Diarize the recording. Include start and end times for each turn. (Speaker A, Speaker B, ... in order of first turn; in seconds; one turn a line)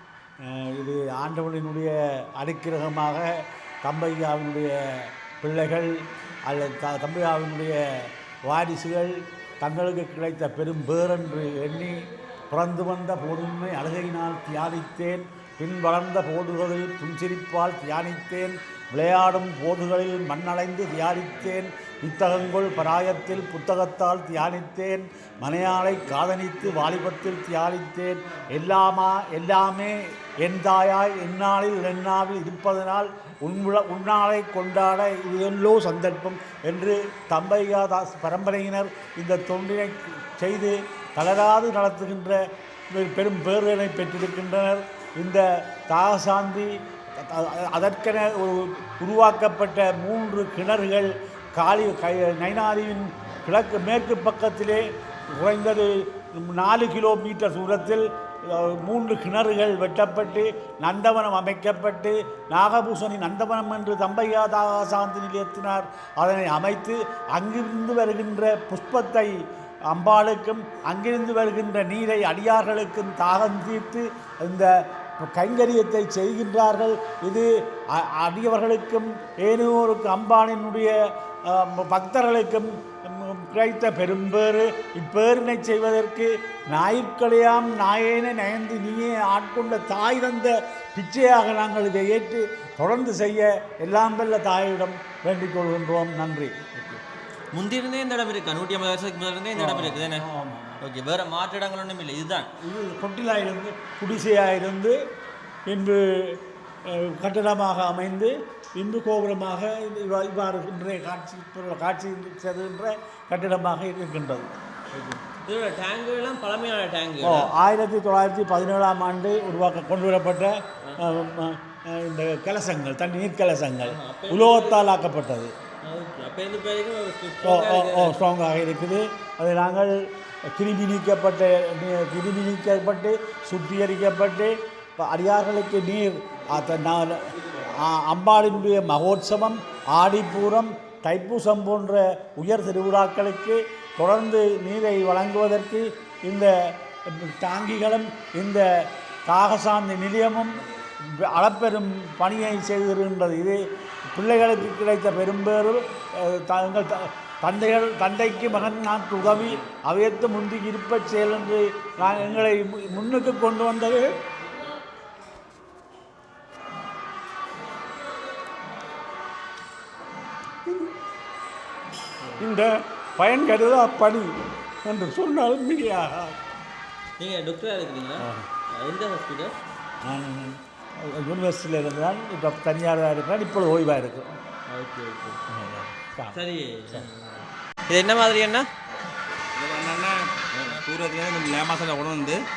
Speaker A: 0.4-69.3
Speaker A: 69.9-80.9
Speaker A: 81.5-96.6
Speaker B: 96.8-97.0
Speaker B: 97.5-100.2
Speaker A: 99.5-100.8
Speaker B: 100.8-102.5
Speaker A: 102.6-105.0
Speaker A: 105.7-114.5
Speaker B: 114.9-117.5
Speaker A: 117.2-125.5
Speaker B: 123.8-124.9
Speaker B: 125.8-128.2
Speaker A: 127.4-153.6
Speaker A: 154.1-164.2
Speaker A: 172.4-174.3
Speaker A: 174.8-176.4
Speaker B: 177.2-179.5
Speaker A: 178.2-178.5
Speaker A: 180.1-184.3
Speaker B: 184.7-185.5
Speaker A: 185.5-186.4
Speaker B: 186.3-188.7
Speaker C: 189.6-192.4